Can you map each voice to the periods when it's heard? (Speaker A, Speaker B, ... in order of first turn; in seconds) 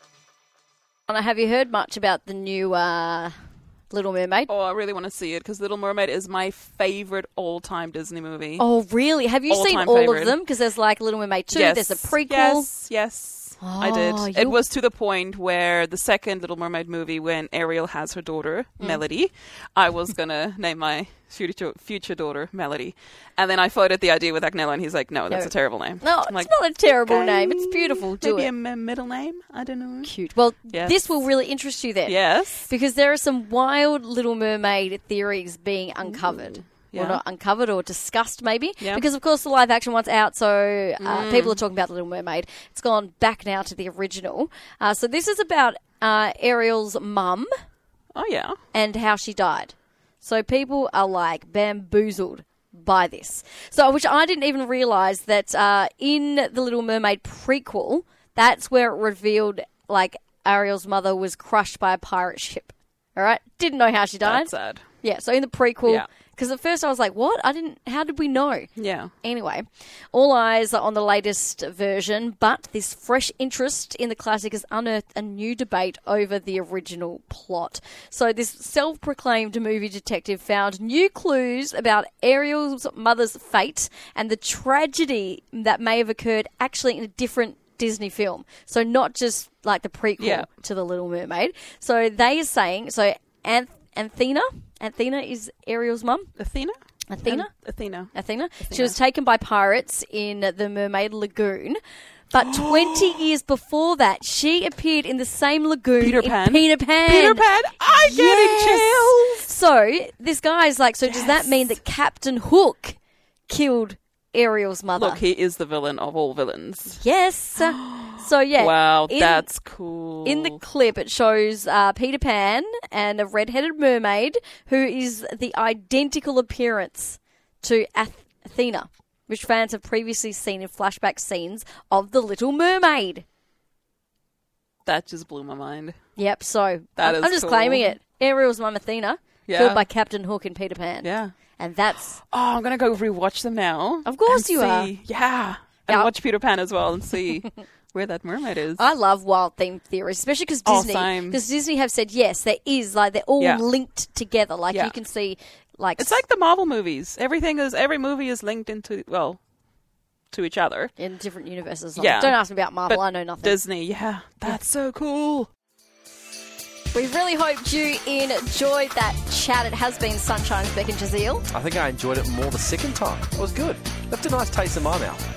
Speaker A: 1.1-3.3, 3.9-4.5, 8.6-12.7, 13.6-14.6, 25.3-28.5, 30.0-47.5, 48.7-64.5, 65.0-68.7, 69.2-96.3, 97.1-97.5, 98.1-101.8, 102.3-113.0, 113.5-115.2, 117.0-119.5, 120.2-133.2, 136.2-142.2, 144.0-144.9, 148.8-156.2, 161.0-163.6, 166.9-171.4
Speaker B: 4.5-8.6, 9.5-10.4, 11.5-30.1, 30.7-31.0, 32.0-32.7, 36.0-37.2, 41.0-41.6, 48.1-48.6, 64.2-64.8, 68.8-69.1, 90.2-90.5, 96.4-98.9, 102.4-103.3, 106.0-109.5, 111.0-111.5, 114.9-117.0, 117.6-120.6, 134.8-135.9, 137.0-137.9, 139.5-139.8, 141.0-141.3, 142.2-148.8, 150.7-151.4, 156.0-159.4, 160.3-160.9, 161.9-165.5
Speaker C: 171.5-175.2